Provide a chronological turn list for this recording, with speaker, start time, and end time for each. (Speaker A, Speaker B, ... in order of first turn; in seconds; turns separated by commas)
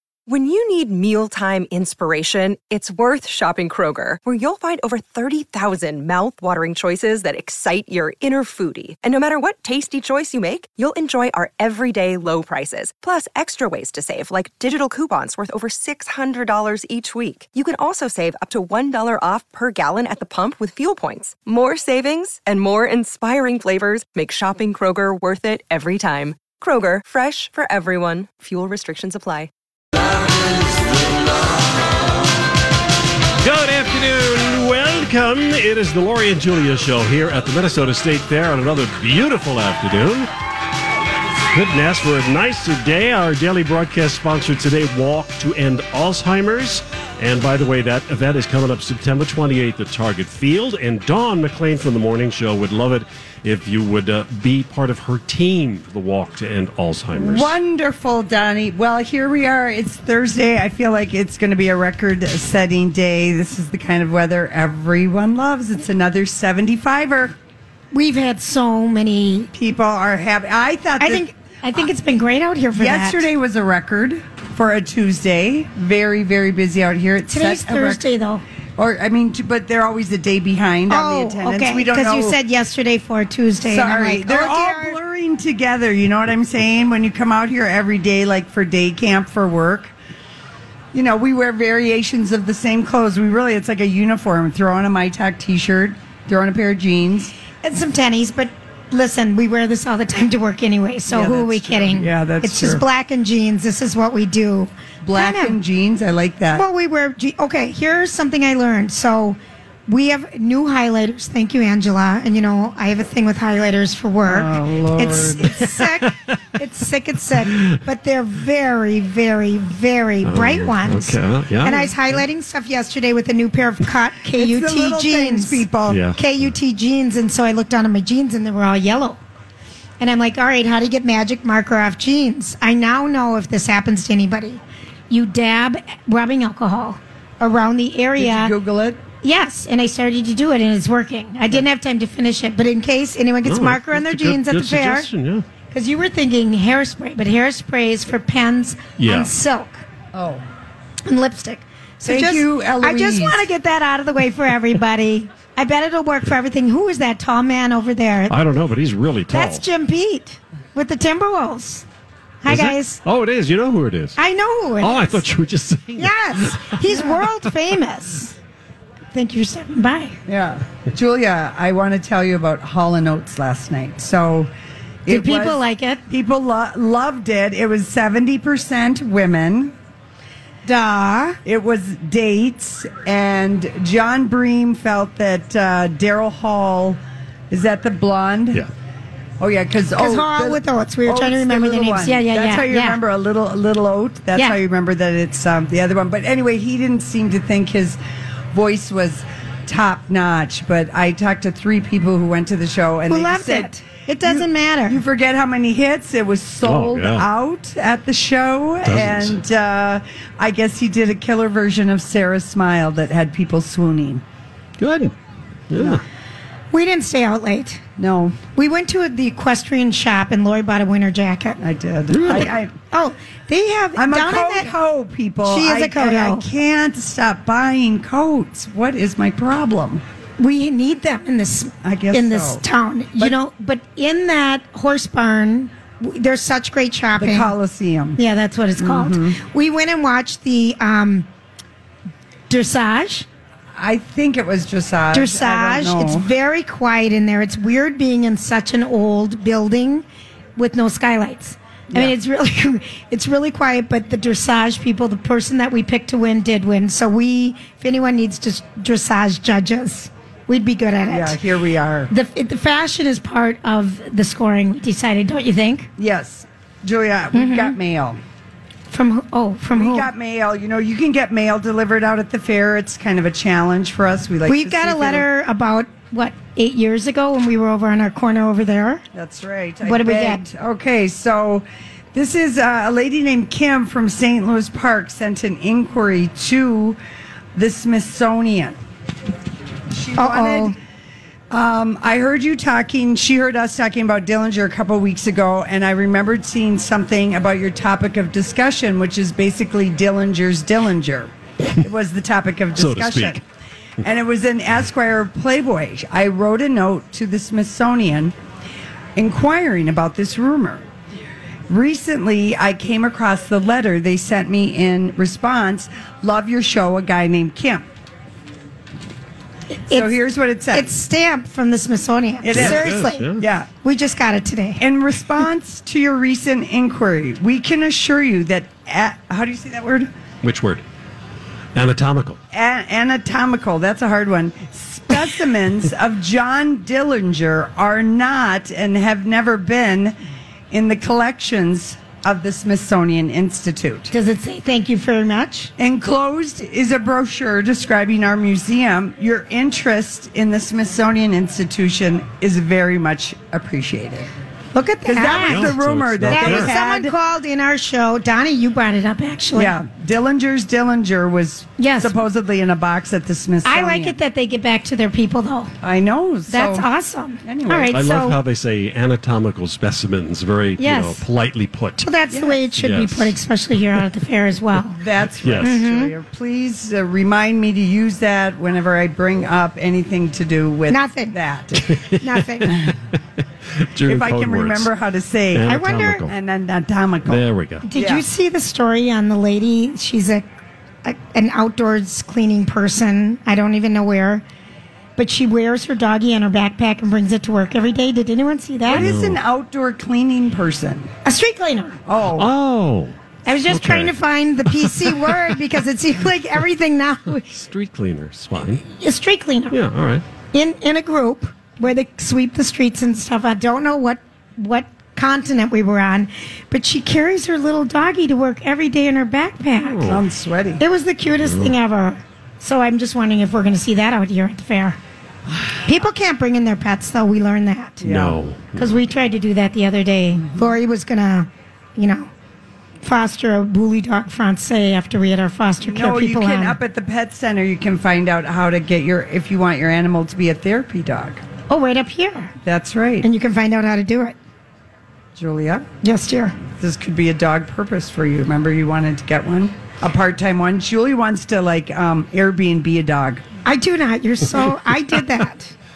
Speaker A: 0.3-29.5, Speaker B: 33.4-40.3, Speaker B: 41.5-57.5, Speaker C: 57.1-67.3, Speaker D: 67.9-69.5, Speaker C: 69.5-71.2, Speaker D: 71.0-73.2, Speaker C: 72.7-78.0, Speaker D: 77.3-78.4, Speaker C: 78.8-82.4, Speaker D: 80.9-85.0, Speaker C: 83.7-89.9, Speaker C: 90.9-97.3, Speaker D: 97.6-105.6, Speaker C: 101.1-102.8, Speaker C: 105.0-106.7, Speaker D: 106.5-125.6, Speaker C: 114.3-115.9, Speaker B: 120.2-122.2, Speaker C: 124.3-126.0, Speaker B: 125.9-126.5, Speaker D: 126.2-129.2, Speaker D: 130.0-138.5, Speaker C: 138.2-139.0, Speaker D: 139.2-145.1, Speaker B: 143.4-145.4, Speaker D: 145.7-149.8, Speaker B: 149.0-149.3, Speaker C: 150.1-150.4, Speaker D: 151.1-158.4, Speaker C: 152.1-153.5, Speaker B: 158.3-159.7, Speaker D: 159.3-161.8, Speaker D: 162.4-163.0, Speaker B: 162.5-164.2, Speaker D: 164.2-165.2, Speaker B: 164.8-166.8, Speaker D: 166.0-168.3, Speaker D: 169.1-170.2, Speaker C: 170.3-174.5, Speaker C: 175.1-179.8, Speaker D: 175.1-176.0, Speaker D: 180.7-181.4, Speaker C: 181.4-188.7, Speaker C: 189.4-198.0, Speaker D: 190.0-193.0, Speaker C: 198.5-214.2, Speaker D: 203.1-205.0, Speaker B: 206.6-207.3, Speaker B: 208.8-209.4, Speaker B: 214.8-215.1, Speaker B: 215.7-216.0, Speaker C: 215.7-216.0, Speaker D: 216.7-217.8, Speaker C: 218.0-218.4, Speaker D: 218.6-221.6, Speaker C: 221.6-222.7, Speaker B: 222.1-222.6, Speaker D: 222.9-224.7, Speaker C: 224.0-230.0, Speaker D: 225.4-226.5, Speaker D: 230.4-237.5, Speaker C: 231.8-232.6, Speaker C: 237.2-238.2, Speaker D: 238.2-241.3, Speaker C: 238.8-239.4, Speaker D: 242.5-243.3, Speaker C: 243.8-246.3, Speaker D: 245.1-250.1, Speaker D: 250.6-261.4, Speaker C: 261.1-262.1, Speaker D: 262.1-265.9, Speaker C: 266.0-268.2, Speaker D: 267.3-267.8, Speaker D: 268.9-270.1, Speaker C: 269.7-275.3, Speaker D: 274.5-279.0, Speaker C: 279.1-287.0, Speaker D: 279.8-280.4, Speaker C: 287.6-288.8, Speaker C: 289.9-290.8, Speaker D: 290.2-290.8, Speaker C: 291.5-303.4, Speaker B: 302.8-303.4, Speaker C: 304.0-308.3, Speaker C: 309.2-310.9, Speaker C: 311.7-317.9, Speaker D: 319.7-323.3, Speaker C: 319.9-320.9, Speaker C: 322.4-323.7, Speaker B: 322.5-323.4, Speaker D: 323.8-324.8, Speaker C: 324.8-330.1, Speaker B: 330.4-330.8, Speaker B: 331.8-332.4, Speaker C: 332.5-340.2, Speaker C: 340.7-344.1, Speaker D: 344.1-345.7, Speaker C: 345.8-354.3, Speaker D: 354.7-359.8, Speaker C: 355.1-357.1, Speaker B: 355.5-356.7, Speaker C: 359.5-364.2, Speaker D: 361.8-362.1, Speaker D: 363.6-365.7, Speaker C: 365.8-366.9, Speaker D: 366.5-368.4, Speaker C: 367.4-368.0, Speaker B: 367.9-373.4, Speaker D: 370.8-371.2, Speaker D: 372.0-375.0, Speaker C: 375.0-381.9, Speaker B: 375.4-375.8, Speaker D: 375.6-376.1, Speaker D: 380.9-381.4, Speaker B: 381.8-383.0, Speaker D: 382.2-382.9, Speaker B: 383.7-384.9, Speaker C: 384.0-385.7, Speaker B: 385.6-386.3, Speaker D: 385.7-386.2, Speaker C: 386.2-388.3, Speaker B: 387.3-387.9, Speaker D: 387.8-390.5, Speaker D: 391.0-394.4, Speaker D: 395.2-399.1, Speaker C: 398.9-401.1, Speaker B: 398.9-399.4, Speaker D: 401.2-402.0, Speaker C: 402.1-402.5, Speaker B: 402.4-405.6, Speaker D: 403.5-407.5, Speaker B: 407.5-408.9, Speaker D: 409.0-409.8, Speaker B: 409.7-410.2, Speaker D: 410.5-420.1, Speaker B: 419.8-420.2, Speaker C: 420.1-420.8, Speaker D: 420.8-425.0, Speaker B: 421.4-421.8, Speaker D: 425.9-428.0, Speaker C: 428.0-428.4, Speaker B: 428.0-429.0, Speaker D: 428.8-432.3, Speaker D: 433.0-436.8, Speaker C: 435.8-441.4, Speaker D: 441.7-442.5, Speaker C: 442.6-443.3, Speaker D: 443.2-444.4, Speaker C: 445.4-445.9, Speaker D: 446.0-446.6, Speaker C: 446.7-453.5, Speaker D: 453.6-455.7